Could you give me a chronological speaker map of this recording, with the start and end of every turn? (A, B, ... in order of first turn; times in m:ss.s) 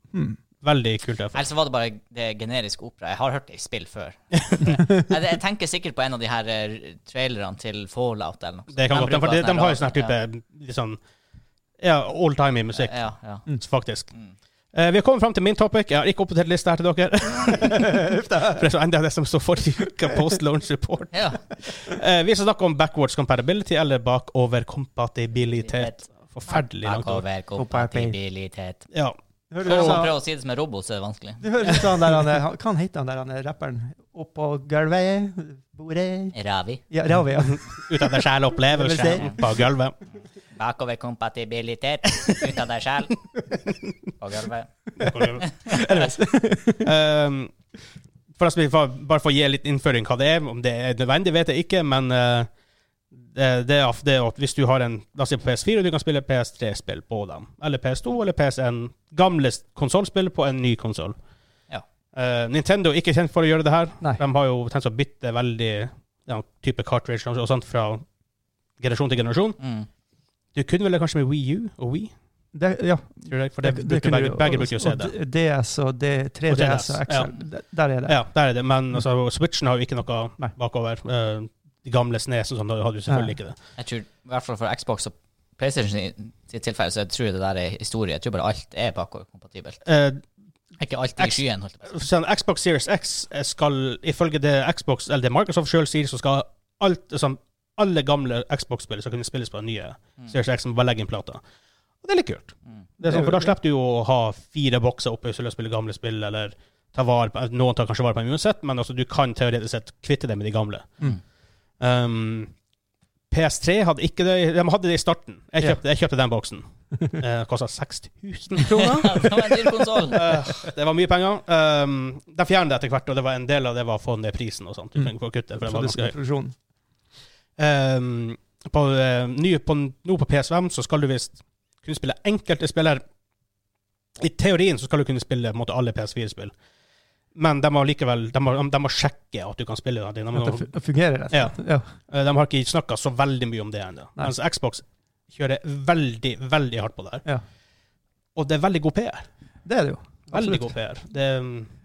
0:00.1-0:00.4 A
0:00.6-0:01.4 B
0:01.3-0:10.1 C
0:04.3-0:04.7 B
0:08.7-0:11.0 B
0:11.8-0:13.0 B
0:12.7-0:13.4 C
0:13.5-0:14.1 B
0:14.7-0:27.2 B
0:17.6-0:18.6 A
0:21.1-0:21.4 C
0:25.6-0:28.9 C
0:27.6-0:28.2 A
0:28.9-0:30.1 B
0:29.5-0:30.1 A
0:29.6-0:31.8 C
0:31.4-0:36.3 A
0:36.3-0:36.8 C
0:36.9-0:38.1 A
0:37.4-0:40.0 B
0:38.7-0:39.3 A
0:39.0-0:39.4 C
0:40.6-0:43.2 C
0:44.2-0:44.7 C
0:45.0-0:46.0 B
0:45.4-0:45.8 C
0:45.6-0:46.9 A
0:46.8-0:47.5 B
0:48.4-0:52.5 B
0:53.3-1:01.2 B
1:02.1-1:08.0 B
1:08.8-1:09.6 B
1:09.6-1:09.9 C
1:10.6-1:12.1 B
1:12.5-1:18.2 A
1:13.3-1:15.1 B
1:16.5-1:17.3 B
1:18.1-1:23.6 B
1:23.1-1:23.4 A
1:23.8-1:29.8 C
1:29.9-1:30.2 B
1:30.8-1:32.0 C
1:31.2-1:41.4 B
1:42.0-1:51.0 B
1:43.0-1:43.5 A
1:51.8-1:52.5 B
1:53.3-2:06.1 B
1:58.7-2:00.2 C
2:05.6-2:06.6 A
2:07.6-2:13.0 B
2:14.2-2:16.5 B
2:17.4-2:20.7 B
2:20.4-2:21.9 A
2:21.3-2:21.6 B
2:22.1-2:27.3 B
2:28.4-2:29.2 B
2:29.6-2:30.7 A
2:30.3-2:31.7 B